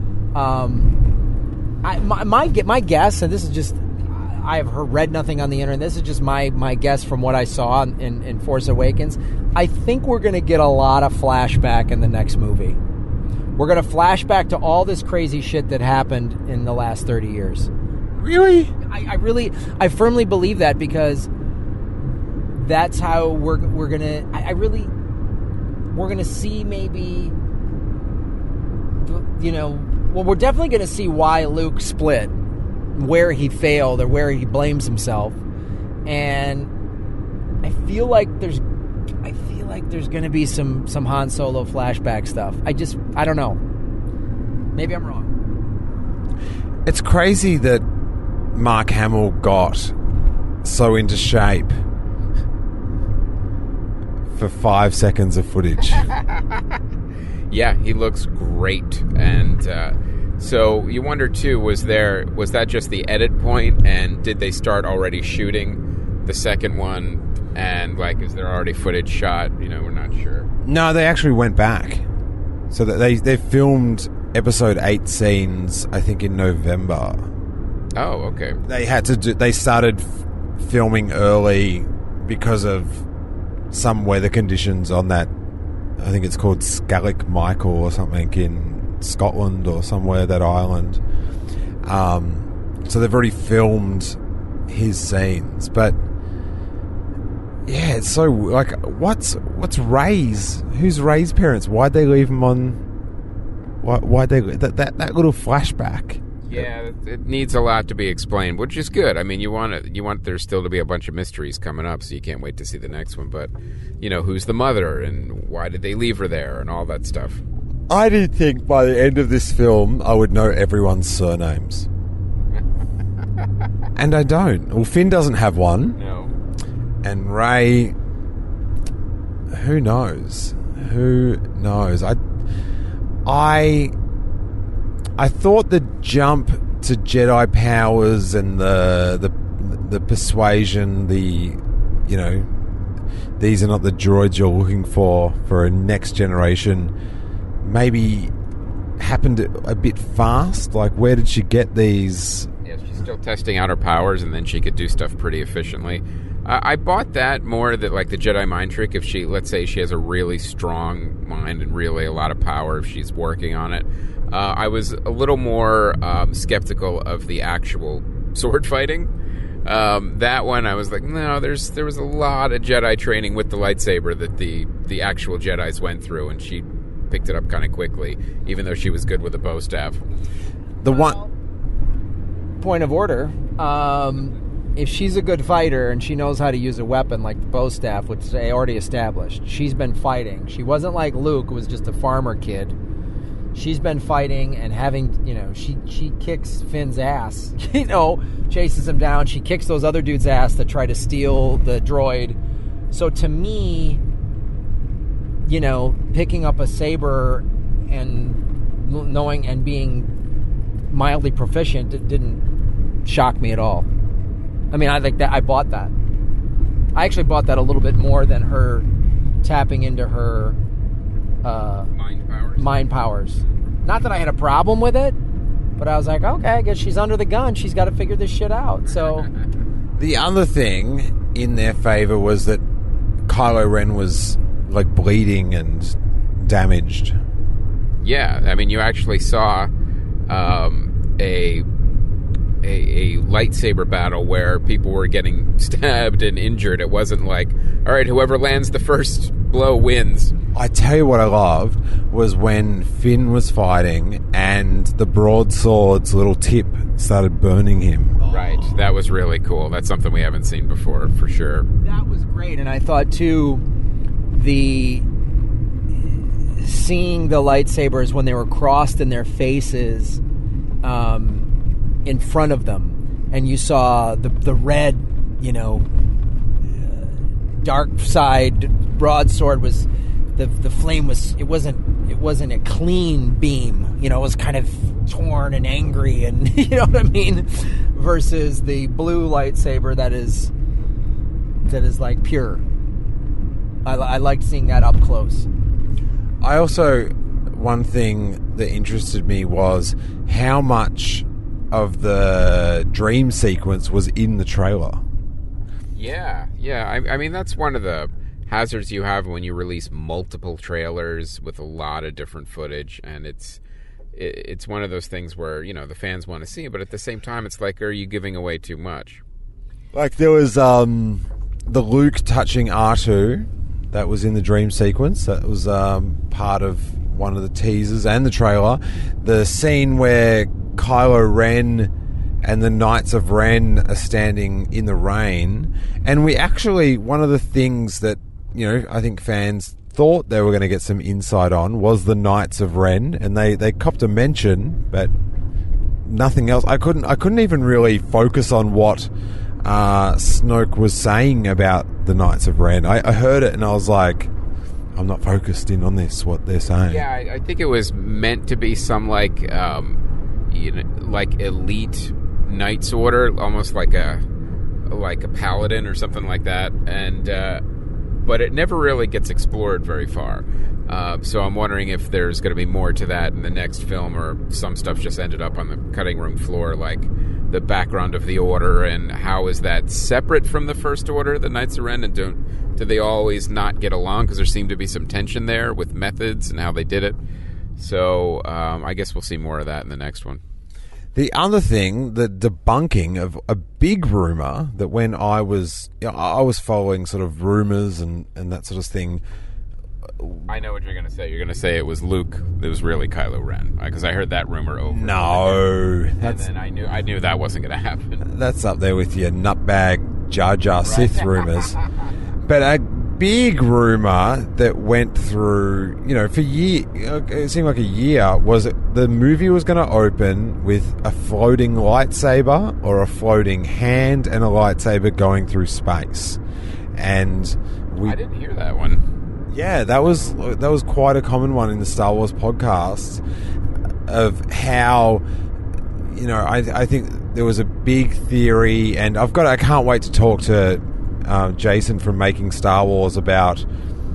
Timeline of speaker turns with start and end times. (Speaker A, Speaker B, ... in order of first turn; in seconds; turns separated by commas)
Speaker A: 0.3-1.0, Speaker A: 1.8-12.8, Speaker A: 13.6-17.7, Speaker B: 18.2-18.7, Speaker A: 18.8-21.3, Speaker A: 22.5-24.9, Speaker A: 25.9-27.4, Speaker A: 29.0-32.3, Speaker A: 33.0-35.4, Speaker A: 36.1-36.7, Speaker A: 37.6-38.6, Speaker A: 39.2-43.6, Speaker A: 44.8-45.3, Speaker B: 46.9-47.9, Speaker B: 48.5-49.9, Speaker B: 50.6-51.8, Speaker B: 54.4-56.0, Speaker C: 57.5-70.5, Speaker B: 70.7-72.0, Speaker B: 72.7-77.3, Speaker C: 78.0-78.6, Speaker B: 78.6-83.0, Speaker B: 83.7-85.3, Speaker B: 86.0-91.0, Speaker B: 91.8-94.2, Speaker B: 94.7-96.0, Speaker B: 97.7-102.8, Speaker B: 103.8-106.7, Speaker C: 106.4-117.4, Speaker B: 117.9-121.9, Speaker B: 124.0-126.0, Speaker C: 126.0-126.3, Speaker B: 127.0-128.0, Speaker B: 129.5-132.2, Speaker B: 133.2-133.9, Speaker B: 135.2-142.5, Speaker B: 143.4-146.9, Speaker B: 147.6-148.3, Speaker B: 149.0-152.5, Speaker C: 152.6-169.1, Speaker C: 169.7-180.0, Speaker B: 180.8-181.2, Speaker A: 180.8-181.3, Speaker A: 182.6-192.8, Speaker A: 193.5-202.4, Speaker A: 202.9-204.0, Speaker A: 205.5-210.1, Speaker A: 210.9-212.4, Speaker A: 213.1-213.9, Speaker A: 214.7-215.9, Speaker A: 216.9-218.9, Speaker A: 219.4-220.6, Speaker A: 221.4-221.9, Speaker C: 221.9-222.9, Speaker A: 222.6-225.2, Speaker A: 225.8-229.3, Speaker B: 230.0-232.6, Speaker B: 233.3-237.2, Speaker C: 238.0-239.7, Speaker C: 240.3-241.7, Speaker C: 242.6-250.3, Speaker B: 250.5-258.2, Speaker C: 258.2-261.7, Speaker A: 261.8-263.6, Speaker A: 264.3-265.1, Speaker A: 266.5-270.2, Speaker A: 270.8-271.5, Speaker A: 272.1-275.9, Speaker A: 276.7-277.1, Speaker A: 277.6-290.5, Speaker A: 291.6-292.6, Speaker A: 293.9-295.5, Speaker B: 296.4-305.0, Speaker C: 305.9-313.6, Speaker C: 314.1-319.2, Speaker B: 319.9-331.9, Speaker B: 332.4-345.1, Speaker B: 346.1-349.1, Speaker B: 349.6-354.3, Speaker B: 354.9-357.1, Speaker C: 356.9-364.2, Speaker C: 364.9-367.6, Speaker C: 368.2-387.2, Speaker C: 387.8-390.4, Speaker B: 391.1-399.2, Speaker C: 400.5-405.7, Speaker B: 404.9-406.4, Speaker C: 406.2-408.2, Speaker B: 408.2-411.8, Speaker C: 410.8-411.7, Speaker B: 412.5-426.4, Speaker B: 426.9-428.2, Speaker C: 428.0-429.0, Speaker B: 429.5-433.2, Speaker B: 434.1-435.2, Speaker B: 436.1-443.7